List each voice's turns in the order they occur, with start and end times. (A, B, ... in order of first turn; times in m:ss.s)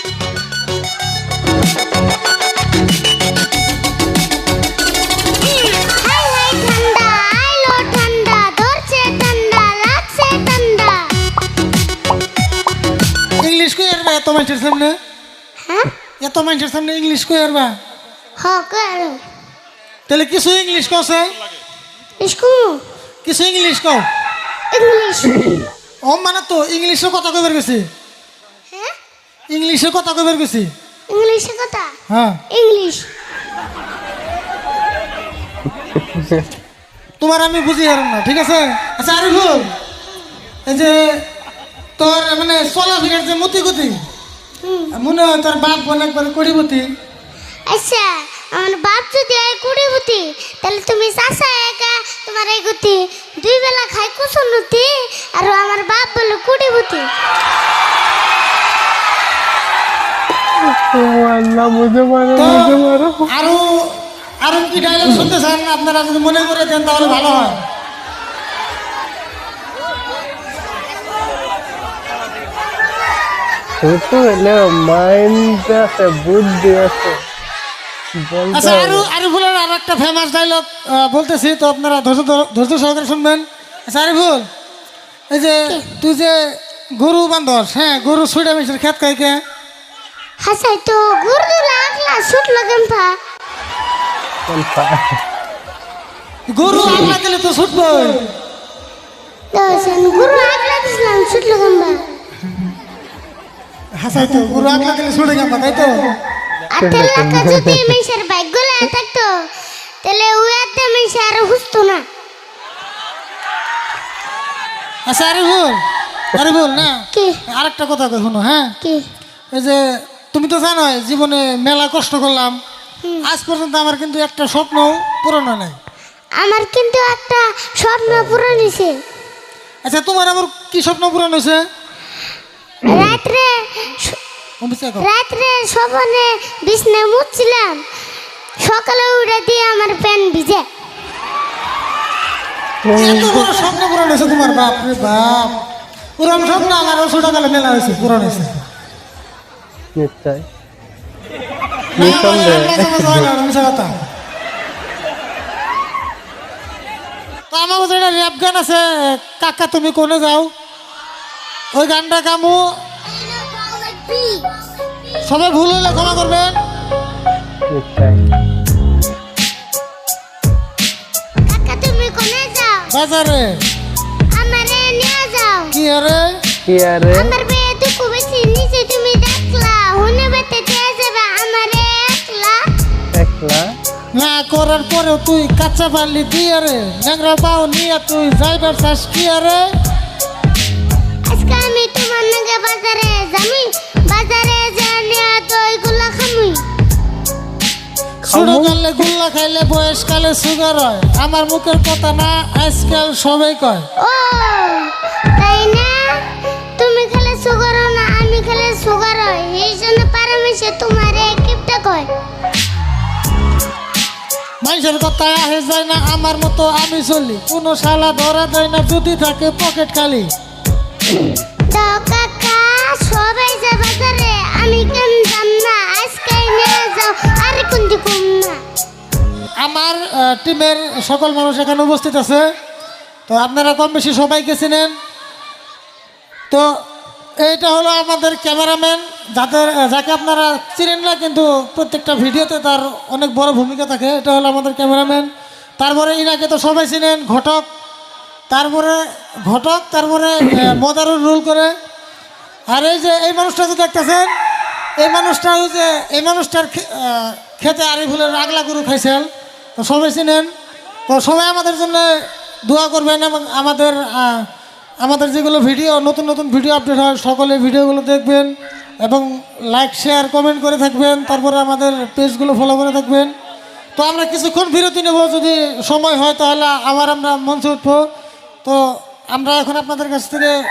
0:05.4-0:11.1 A
0:13.4-0:15.0 B
0:15.6-0:15.9 A
0:16.2-0:17.7 B
0:18.4-0:19.2 A
0:20.1-0:21.3 B
0:22.2-0:22.8 A
0:23.2-0:24.1 B
0:24.7-0:25.6 A
0:26.0-0:27.9 B
0:29.5-0:30.7 B
0:31.1-0:31.9 A
0:32.1-0:32.4 B
0:32.5-0:33.1 A
0:37.2-0:39.7 B
0:40.6-0:41.2 B
0:42.0-0:44.0 B
0:44.6-0:44.9 A
0:44.9-0:46.9 B
0:47.7-0:57.1 A
1:00.9-1:03.3 C
1:02.3-1:02.7 B
1:03.3-1:03.6 B
1:04.4-1:07.6 B
1:13.8-1:17.2 C
1:18.2-1:19.1 C
1:18.5-1:24.4 B
1:25.3-1:26.4 B
1:27.0-1:29.4 B
1:30.4-1:33.2 A
1:34.5-1:35.2 C
1:36.5-1:38.2 B
1:39.5-1:42.0 A
1:44.0-1:46.0 B
1:46.7-1:49.4 A
1:46.8-1:47.9 C
1:50.0-1:52.0 A
1:55.0-1:55.8 B
1:56.3-1:58.7 B
1:57.1-1:57.4 A
1:59.5-1:59.8 B
2:00.3-2:02.6 B
2:03.2-2:05.8 B
2:06.4-2:09.0 A
2:09.8-2:11.6 B
2:12.8-2:14.2 A
2:14.6-2:15.1 B
2:15.0-2:17.8 A
2:18.6-2:20.7 A
2:22.8-2:23.5 C
2:22.9-2:25.6 B
2:26.2-2:28.6 B
2:30.0-2:30.4 C
2:32.0-2:33.9 B
2:32.0-2:33.3 C
2:37.5-2:40.5 B
2:41.7-2:42.6 B
2:43.0-2:44.5 A
2:45.2-2:46.6 B
2:47.7-2:48.2 C
2:51.5-2:52.9 A
2:52.9-2:53.6 B
2:54.3-2:55.7 A
2:55.7-2:56.4 B
2:56.6-2:57.3 C
2:57.1-3:02.6 A
3:03.1-3:03.7 C
3:04.1-3:09.6 B
3:11.3-3:16.6 A
3:18.2-3:18.8 C
3:18.3-3:23.8 B
3:24.0-3:26.2 A
3:26.8-3:32.1 A
3:34.6-3:40.3 B
3:41.7-3:48.6 A
3:49.6-3:52.4 B
3:53.3-3:54.9 B
3:57.4-4:07.6 B
4:08.5-4:11.7 B
4:12.7-4:14.3 B
4:15.0-4:20.5 B
4:21.1-4:22.1 B
4:22.7-4:24.4 B
4:25.0-4:28.5 B
4:29.0-4:33.3 B
4:34.0-4:38.0 B
4:38.6-4:40.5 B